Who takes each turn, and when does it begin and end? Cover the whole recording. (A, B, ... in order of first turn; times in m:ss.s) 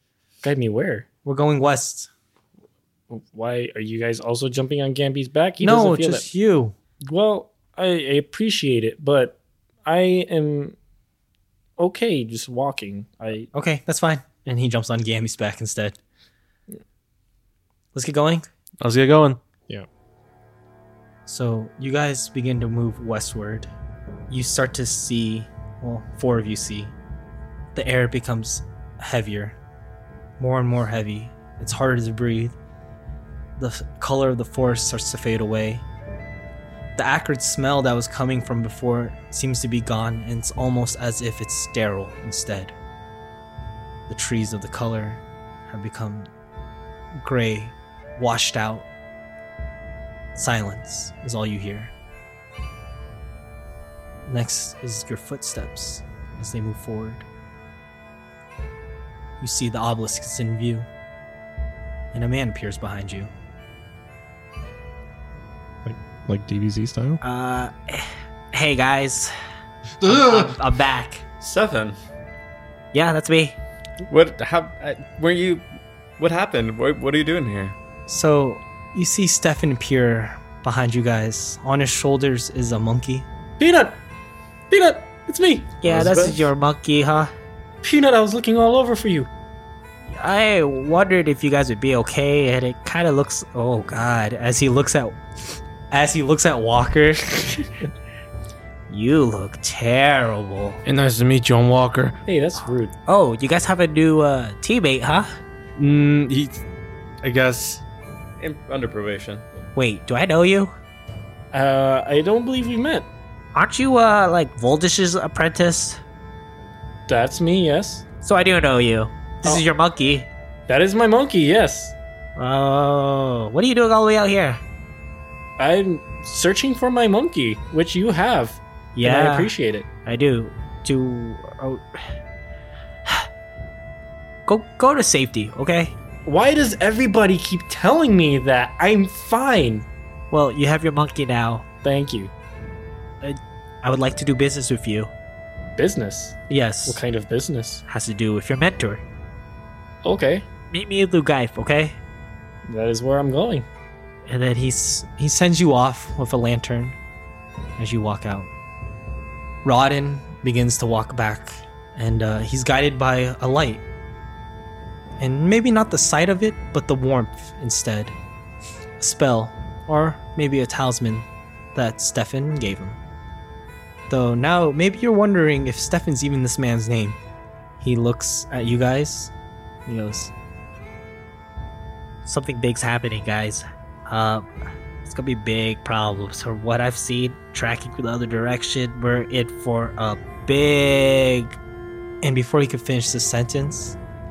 0:00.4-0:01.1 A
0:01.2-0:02.1 B
0:03.1-0:06.3 A
0:05.6-0:06.8 B
0:07.1-0:10.8 A
0:11.8-0:13.5 A
0:13.5-0:16.0 B
0:17.9-0:18.5 B
0:18.8-0:19.4 C
0:21.3-0:23.7 B
0:24.3-0:26.9 B
0:27.8-0:29.6 B
0:30.4-0:32.6 B
0:33.6-0:35.8 B
0:37.0-0:42.8 B
0:44.1-0:46.3 B
0:47.1-0:48.9 B
0:50.4-0:51.9 B
0:54.3-0:57.2 B
0:59.4-1:00.9 B
1:02.1-1:03.3 B
1:05.8-1:07.2 D
1:07.2-1:09.3 B
1:10.0-1:10.6 D
1:10.0-1:11.2 B
1:11.4-1:12.0 E
1:12.9-1:13.6 B
1:14.1-1:15.6 E
1:16.2-1:17.8 E
1:18.1-1:23.3 B
1:23.6-1:24.0 A
1:24.7-1:26.3 A
1:25.8-1:27.3 B
1:25.9-1:26.4 E
1:27.8-1:29.3 A
1:30.1-1:35.2 B
1:35.9-1:37.7 B
1:38.9-1:40.8 B
1:40.8-1:42.2 C
1:42.3-1:42.9 A
1:43.1-1:45.3 B
1:45.8-1:46.6 C
1:47.2-1:47.8 C
1:48.4-1:49.4 E
1:49.8-1:50.8 B
1:51.5-1:53.1 A
1:53.6-1:56.0 B
1:57.1-1:58.0 A
1:58.2-2:00.3 B
2:00.7-2:01.9 A
2:02.4-2:04.6 B
2:05.6-2:09.9 A
2:09.0-2:09.5 B
2:10.0-2:12.0 B
2:14.5-2:16.0 B
2:16.2-2:19.9 A
2:20.3-2:21.7 B
2:21.8-2:22.3 A
2:23.2-2:25.1 B
2:25.8-2:27.8 A
2:26.5-2:27.0 B
2:27.9-2:29.0 B
2:30.0-2:30.5 A
2:30.7-2:32.0 B
2:32.7-2:33.7 A
2:34.3-2:37.0 B
2:37.8-2:38.5 B
2:39.6-2:43.8 B
2:45.2-2:48.2 B
2:49.0-2:53.0 B
2:54.1-2:57.2 B
2:57.8-2:59.3 B
2:59.9-3:00.3 B
3:02.2-3:04.5 B
3:05.0-3:11.6 B
3:12.2-3:14.0 B